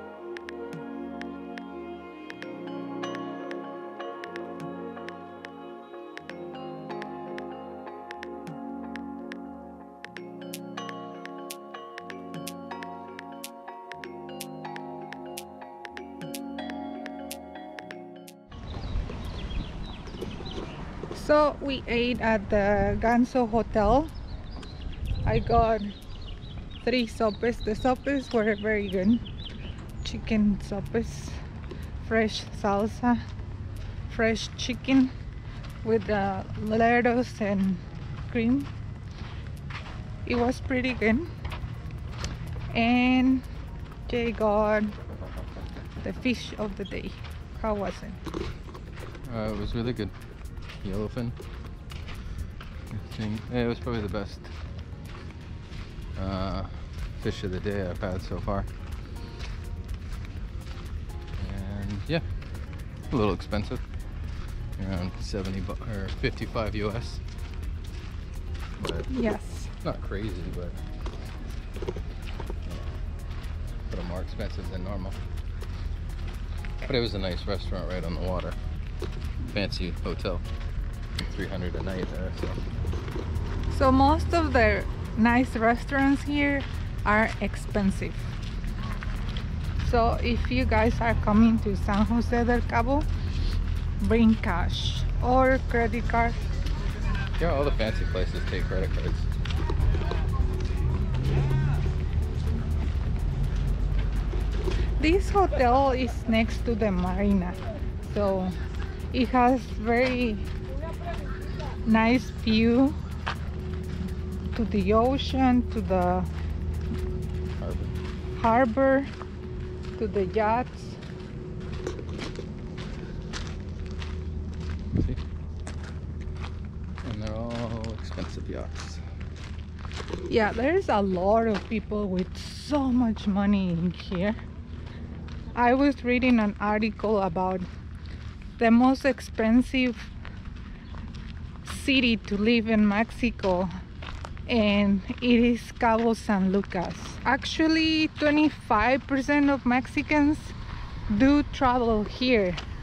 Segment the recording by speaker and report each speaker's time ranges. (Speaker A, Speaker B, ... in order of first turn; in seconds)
Speaker A: 21.1-24.1, 25.2-25.9, 26.8-29.2, 30.0-31.4, 32.0-33.2, 34.1-35.1, 35.8-38.7, 40.2-41.3, 42.7-43.5, 44.1-44.9, 46.0-48.2, 69.1-69.7, 83.7-88.3, 89.8-93.1, 94.0-96.4, 105.0-108.6, 109.1-110.5, 111.8-113.0, 114.5-116.3, 118.3-119.1, 120.0-121.0, 130.3-134.4, 135.6-137.7, 138.6-140.1, 141.6-143.7, 144.5-150.6, 151.1-152.6
Speaker B: 49.2-50.1, 50.8-51.4, 52.9-54.5, 56.2-58.7, 61.4-62.3, 63.1-63.8, 64.8-67.2, 68.8-69.1, 69.8-70.8, 73.9-75.2, 76.8-78.6, 79.5-80.5, 81.2-82.6, 97.4-99.3, 117.6-117.9, 127.0-129.0